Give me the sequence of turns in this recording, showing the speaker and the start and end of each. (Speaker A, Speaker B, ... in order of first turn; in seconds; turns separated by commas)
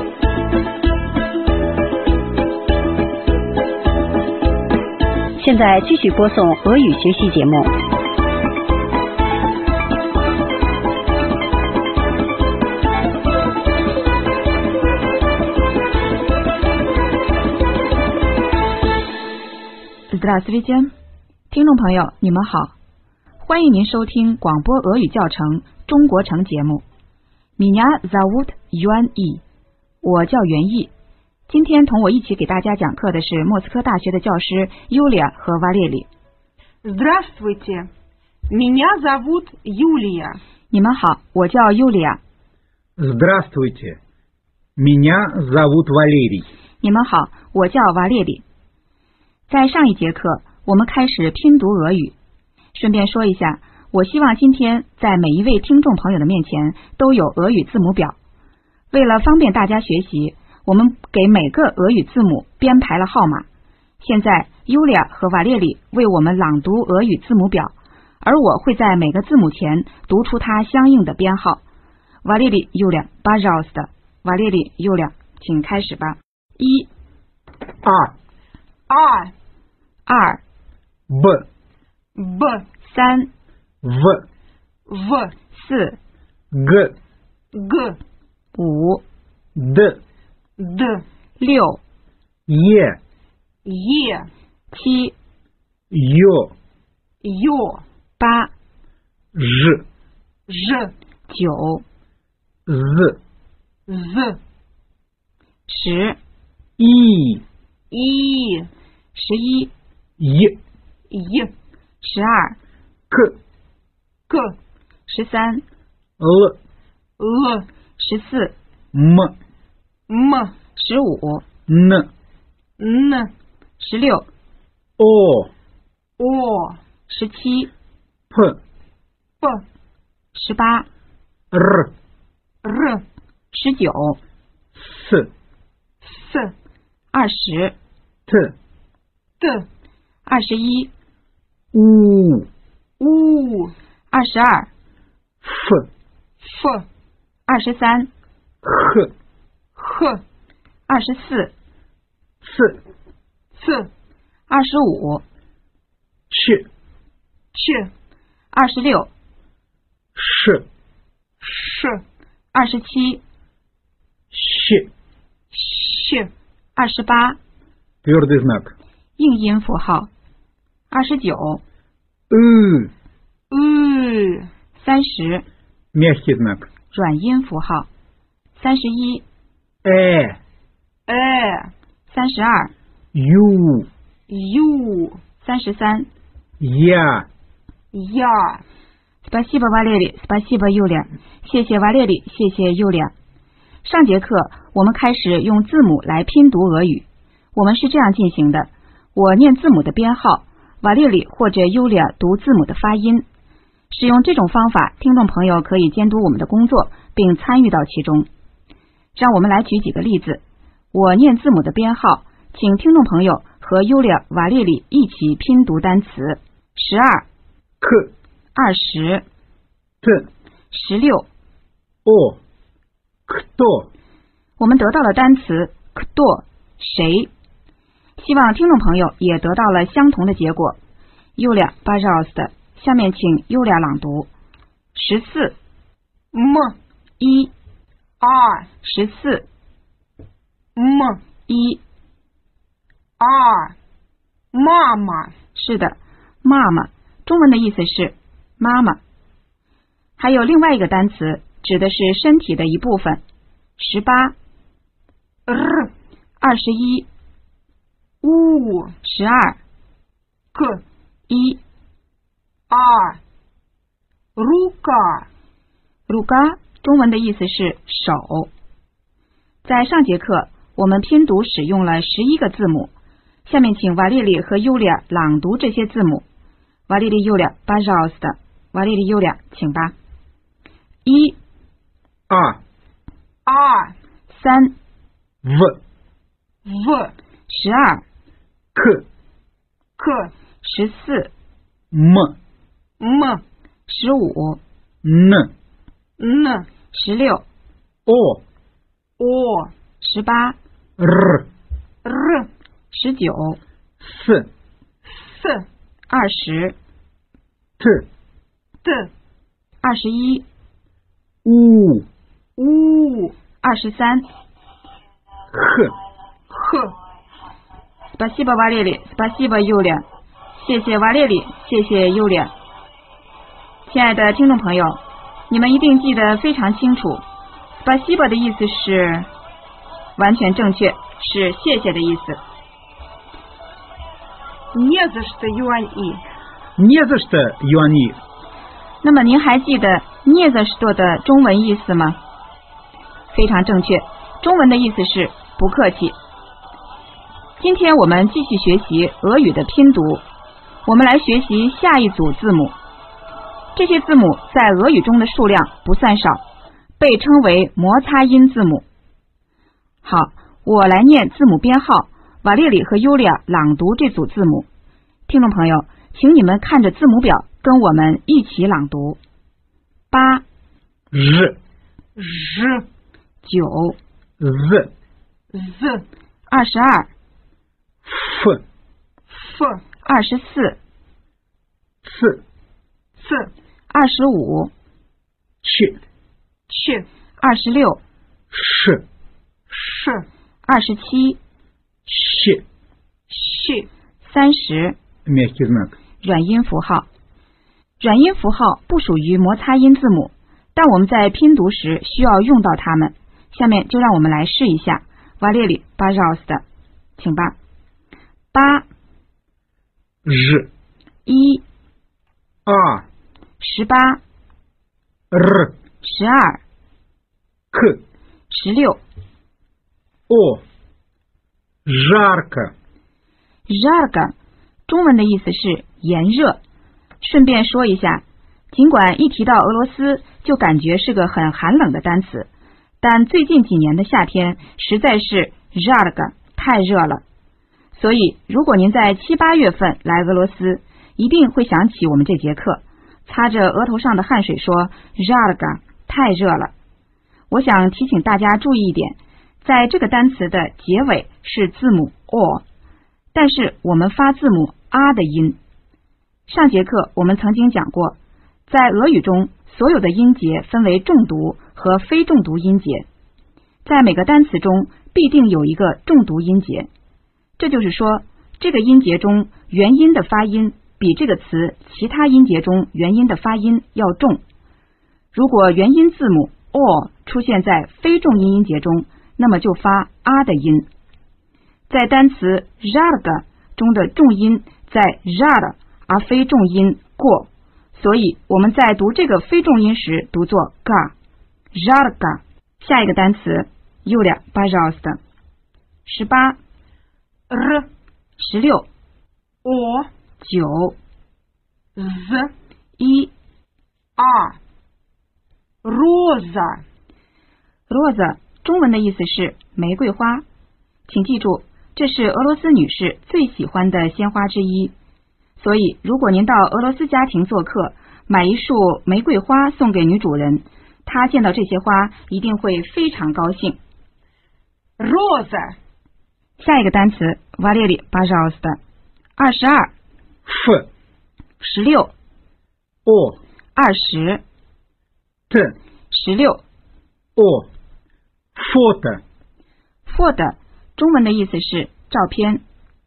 Speaker A: 5.4-7.7, Speaker B: 20.1-20.9, Speaker B: 21.5-22.7, Speaker B: 23.4-26.8, Speaker B: 27.6-29.4, Speaker B: 30.0-30.9, Speaker B: 31.5-36.1, Speaker C: 36.8-37.9, Speaker C: 38.5-40.4, Speaker B: 40.7-42.2, Speaker D: 43.0-44.0, Speaker D: 44.8-46.5, Speaker B: 46.8-48.4, Speaker B: 49.5-52.1, Speaker B: 52.8-58.2, Speaker B: 58.9-63.5, Speaker B: 64.0-71.6, Speaker B: 72.2-76.9, Speaker D: 77.8-78.1, Speaker C: 78.9-79.3, Speaker B: 80.1-80.4, Speaker D: 81.1-81.5, Speaker C: 82.2-82.7, Speaker B: 82.8-83.3, Speaker D: 83.8-84.2, Speaker C: 84.9-85.3, Speaker B: 85.5-86.0, Speaker D: 86.5-87.0, Speaker C: 87.5-88.0, Speaker B: 88.5-89.0, Speaker D: 89.5-90.0, Speaker C: 90.6-91.0, Speaker B: 91.4-91.8, Speaker D: 92.5-93.0, Speaker C: 93.7-94.3, Speaker B: 94.7-95.2, Speaker D: 95.9-96.5, Speaker C: 97.2-97.8, Speaker B: 98.2-98.5, Speaker D: 99.3-99.8, Speaker C: 100.5-100.9, Speaker B: 101.3-101.8, Speaker D: 102.7-103.2, Speaker C: 103.9-104.4, Speaker B: 105.7-106.2, Speaker D: 106.8-107.4, Speaker C: 107.9-108.7, Speaker B: 109.2-109.7, Speaker D: 110.2-110.6, Speaker C: 111.1-111.5, Speaker B: 112.0-112.6, Speaker D: 113.1-113.4, Speaker C: 114.3-114.6, Speaker B: 115.1-115.6, Speaker D: 116.2-116.6, Speaker C: 117.2-117.7, Speaker B: 118.0-118.5, Speaker D: 118.9-119.3, Speaker C: 120.1-120.5, Speaker B: 120.8-121.5, Speaker D: 121.7-122.1, Speaker C: 122.8-123.3, Speaker B: 123.8-124.3, Speaker D: 125.0-125.5, Speaker C: 126.2-126.8, Speaker B: 127.1-127.7, Speaker D: 128.3-128.6, Speaker B: 130.3-130.9, Speaker D: 131.5-131.9, Speaker C: 132.6-133.0, Speaker B: 133.5-134.2, Speaker D: 134.8-135.3, Speaker C: 136.0-136.5, Speaker B: 137.1-137.8, Speaker D: 138.3-138.6, Speaker C: 139.4-139.7, Speaker B: 140.3-140.9, Speaker D: 141.7-142.5, Speaker C: 143.0-143.7, Speaker B: 144.1-144.7, Speaker D: 145.4-145.9, Speaker C: 146.4-146.9, Speaker B: 147.5-148.1, Speaker D: 148.6-149.1, Speaker C: 149.8-150.2, Speaker B: 150.9-151.5, Speaker D: 152.4-152.8, Speaker C: 153.6-153.9, Speaker B: 154.5-155.2, Speaker D: 156.3-156.7, Speaker C: 157.5-157.9, Speaker B: 158.5-159.1, Speaker D: 160.2-160.7, Speaker C: 161.4-162.0, Speaker B: 162.5-163.2, Speaker D: 164.3-164.9, Speaker C: 165.5-166.3, Speaker B: 166.8-167.4, Speaker D: 168.0-168.7, Speaker B: 169.2-170.1, Speaker B: 170.9-171.6, Speaker D: 172.3-172.9, Speaker C: 173.5-174.5, Speaker B: 174.8-175.5, Speaker D: 175.9-176.7, Speaker B: 176.9-177.9, Speaker B: 178.6-179.2, Speaker D: 179.8-180.4, Speaker C: 181.1-181.7, Speaker B: 182.1-182.7, Speaker D: 183.1-183.9, Speaker C: 184.3-185.2, Speaker B: 185.4-186.1, Speaker D: 186.6-187.3, Speaker C: 187.9-188.6, Speaker B: 189.2-193.1, Speaker B: 193.8-203.2, Speaker B: 203.9-208.3, Speaker B: 209.2-210.4, Speaker B: 210.9-217.2, Speaker D: 217.8-218.1, Speaker B: 218.6-219.2, Speaker D: 220.0-220.3, Speaker B: 220.7-221.3, Speaker D: 222.1-222.4, Speaker D: 223.3-223.9, Speaker B: 224.6-227.3, Speaker B: 228.2-230.8, Speaker B: 231.4-234.3, Speaker B: 234.9-235.6, Speaker C: 236.3-236.8, Speaker B: 237.2-237.5, Speaker C: 238.2-238.7, Speaker B: 238.8-239.5, Speaker C: 240.8-241.2, Speaker B: 241.5-241.8, Speaker C: 243.2-243.8, Speaker C: 244.5-245.3, Speaker B: 245.6-249.0, Speaker B: 250.2-253.2, Speaker B: 253.8-254.3, Speaker C: 255.5-255.9, Speaker B: 256.4-257.1, Speaker C: 258.2-258.9, Speaker B: 259.0-259.6, Speaker C: 260.5-260.8, Speaker B: 261.3-261.6, Speaker C: 262.7-263.2, Speaker C: 264.4-265.3, Speaker B: 266.1-268.5, Speaker B: 269.6-272.9, Speaker B: 273.4-276.2, Speaker B: 276.9-279.9, Speaker B: 281.0-281.4, Speaker D: 282.3-282.6, Speaker C: 283.5-283.9, Speaker B: 284.3-284.8, Speaker D: 285.4-285.8, Speaker C: 286.6-287.1, Speaker B: 287.5-288.0, Speaker D: 288.8-289.1, Speaker C: 290.0-290.3, Speaker B: 290.6-291.3, Speaker D: 291.9-292.4, Speaker C: 293.0-293.4, Speaker B: 293.9-294.6, Speaker D: 295.0-295.5, Speaker C: 296.2-296.7, Speaker B: 296.9-297.4, Speaker D: 298.1-298.4, Speaker C: 299.2-299.7, Speaker B: 300.0-300.6, Speaker D: 301.0-301.5, Speaker C: 302.1-302.5, Speaker B: 302.9-303.6, Speaker D: 304.0-304.5, Speaker C: 305.1-305.7, Speaker B: 306.1-306.8, Speaker D: 307.8-308.1, Speaker C: 308.8-309.1, Speaker B: 309.8-310.4, Speaker D: 311.4-312.1, Speaker C: 312.6-313.4, Speaker B: 313.6-314.3, Speaker D: 315.5-315.9, Speaker C: 316.5-316.9, Speaker B: 318.1-320.0, Speaker B: 320.6-322.5, Speaker B: 323.9-327.2, Speaker B: 327.8-329.3, Speaker B: 330.2-332.4, Speaker C: 334.7-336.2, Speaker D: 336.8-338.2, Speaker B: 339.0-342.2, Speaker B: 343.3-346.2, Speaker B: 347.6-350.2, Speaker B: 350.9-352.8, Speaker B: 353.8-356.4, Speaker B: 357.0-358.9, Speaker B: 360.0-364.7, Speaker B: 365.3-369.2, Speaker B: 370.1-370.4, Speaker D: 371.1-371.6, Speaker C: 372.2-372.9, Speaker B: 373.4-374.0, Speaker D: 374.4-374.9, Speaker C: 375.5-376.1, Speaker B: 376.5-377.1, Speaker D: 378.1-378.6, Speaker C: 379.3-379.8, Speaker B: 380.0-380.8, Speaker D: 382.0-382.4, Speaker C: 383.2-383.5, Speaker B: 383.9-384.7, Speaker D: 385.6-386.0, Speaker C: 386.7-387.1, Speaker B: 387.4-388.0, Speaker D: 388.5-389.1, Speaker C: 389.7-390.3, Speaker B: 390.6-391.4, Speaker D: 392.1-392.6, Speaker C: 393.3-393.9, Speaker B: 394.2-395.0, Speaker D: 395.3-395.9, Speaker B: 396.2-397.1, Speaker B: 398.0-406.6, Speaker B: 407.2-407.6, Speaker B: 408.5-408.9, Speaker D: 410.2-410.7, Speaker B: 411.3-411.6, Speaker D: 412.7-413.1, Speaker B: 413.6-414.2, Speaker D: 415.3-415.7, Speaker B: 416.0-416.6, Speaker D: 417.7-418.0, Speaker B: 418.5-419.0, Speaker D: 420.3-420.6, Speaker D: 421.9-422.7, Speaker B: 423.7-424.3, Speaker B: 424.9-426.6, Speaker B: 427.2-432.5, Speaker B: 433.0-437.2, Speaker B: 437.9-446.7, Speaker B: 447.5-452.6, Speaker B: 453.3-455.6, Speaker B: 456.5-463.1, Speaker B: 463.9-466.9, Speaker B: 467.6-474.4, Speaker B: 475.3-480.9, Speaker B: 481.9-491.1, Speaker B: 491.7-495.2, Speaker B: 496.1-496.6, Speaker C: 497.5-497.9, Speaker B: 498.4-498.9, Speaker C: 499.6-500.1, Speaker B: 500.4-501.0, Speaker C: 502.0-502.5, Speaker B: 503.0-503.3, Speaker C: 504.2-504.6, Speaker C: 505.8-506.8, Speaker B: 507.9-510.4, Speaker B: 511.1-514.9, Speaker B: 515.6-523.8, Speaker C: 525.0-525.8, Speaker B: 526.6-528.8, Speaker B: 529.4-529.9, Speaker D: 530.5-530.9, Speaker B: 531.6-532.1, Speaker D: 533.0-533.4, Speaker B: 533.8-534.4, Speaker D: 535.5-535.8, Speaker B: 536.1-536.6, Speaker D: 537.4-537.7, Speaker D: 538.5-539.2, Speaker B: 540.1-542.6